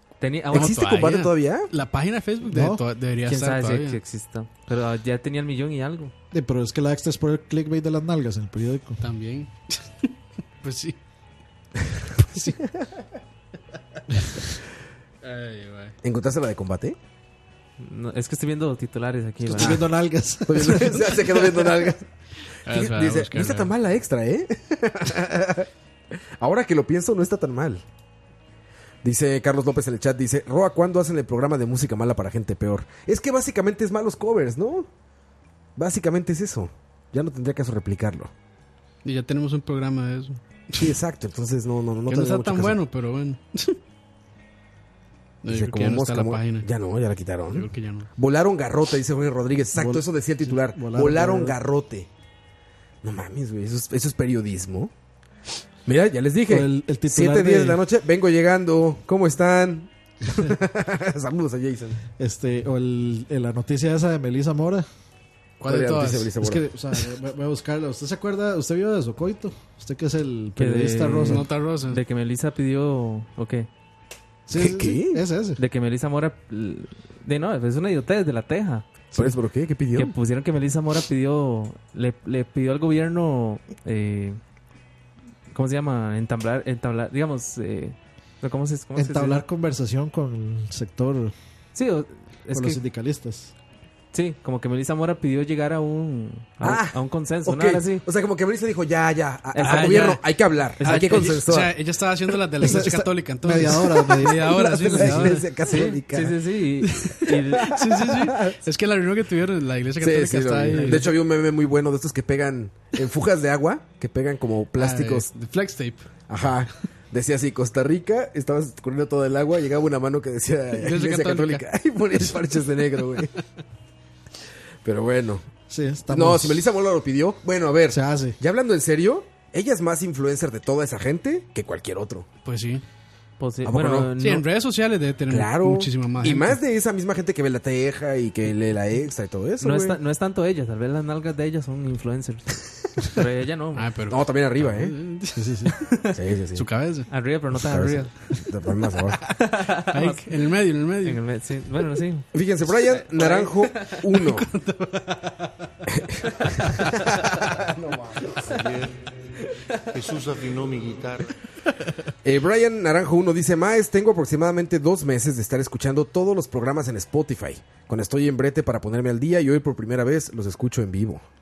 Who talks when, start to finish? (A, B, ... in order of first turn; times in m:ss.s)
0:00.2-0:00.8 A
0:00.5-0:01.7 B
0:00.5-0:04.0 C
0:02.5-0:02.8 D
0:03.2-0:06.1 A
0:06.3-0:09.0 D
0:09.0-0:10.1 C
0:10.6-0:11.0 C
0:12.2-0:12.6 C
0:15.2-0:15.9 C
0:16.0-0:17.0 B
0:17.8-0:19.8 A
0:19.4-0:21.2 D
0:19.6-0:19.8 B
0:20.4-0:22.1 B
0:22.6-0:23.7 C
0:22.6-0:25.7 B
0:26.4-0:27.8 B
0:29.0-0:34.9 B
0:35.8-0:38.3 B
0:39.0-0:40.9 C
0:40.8-0:42.8 B
0:42.1-0:43.8 C
0:45.4-0:46.7 C
0:45.4-0:52.1 B
0:47.5-0:48.1 C
0:49.7-0:51.6 D
0:53.0-0:54.9 B
0:55.8-1:02.0 B
0:56.5-0:57.8 D
1:02.2-1:04.9 D
1:05.6-1:06.3 C
1:05.6-1:06.6 B
1:06.4-1:11.5 D
1:10.6-1:13.7 A
1:11.2-1:12.0 C
1:14.5-1:15.6 D
1:14.5-1:15.2 B
1:15.6-1:18.8 A
1:19.1-1:20.1 B
1:20.0-1:24.4 A
1:25.5-1:29.4 A
1:28.9-1:31.3 D
1:31.7-1:32.8 A
1:32.5-1:33.5 D
1:34.1-1:38.0 A
1:36.6-1:41.8 B
1:39.5-1:40.2 A
1:39.6-1:45.4 C
1:40.8-1:41.3 A
1:42.6-1:45.3 D
1:44.2-1:46.4 B
1:45.7-1:47.8 A
1:46.9-1:51.1 C
1:47.8-1:48.6 B
1:50.0-1:55.3 B
1:54.8-1:56.0 C
1:56.3-2:03.3 B
2:00.8-2:01.6 C
2:04.8-2:05.5 B
2:05.7-2:06.6 D
2:06.1-2:12.3 B
2:07.9-2:08.4 D
2:12.4-2:12.8 C
2:13.4-2:14.4 A
2:13.6-2:14.1 B
2:14.2-2:16.6 C
2:15.3-2:20.0 B
2:19.6-2:23.8 A
2:23.7-2:26.0 C
2:24.1-2:25.0 B
2:25.3-2:25.7 D
2:26.1-2:26.7 B
2:26.5-2:27.1 C
2:27.1-2:28.4 A
2:27.5-2:29.2 B
2:29.4-2:30.3 A
2:29.9-2:31.2 C
2:31.0-2:34.0 A
2:32.3-2:34.5 B
2:34.3-2:35.3 C
2:35.9-2:38.4 B
2:38.4-2:39.1 E
2:39.9-2:41.3 E
2:42.2-2:51.2 B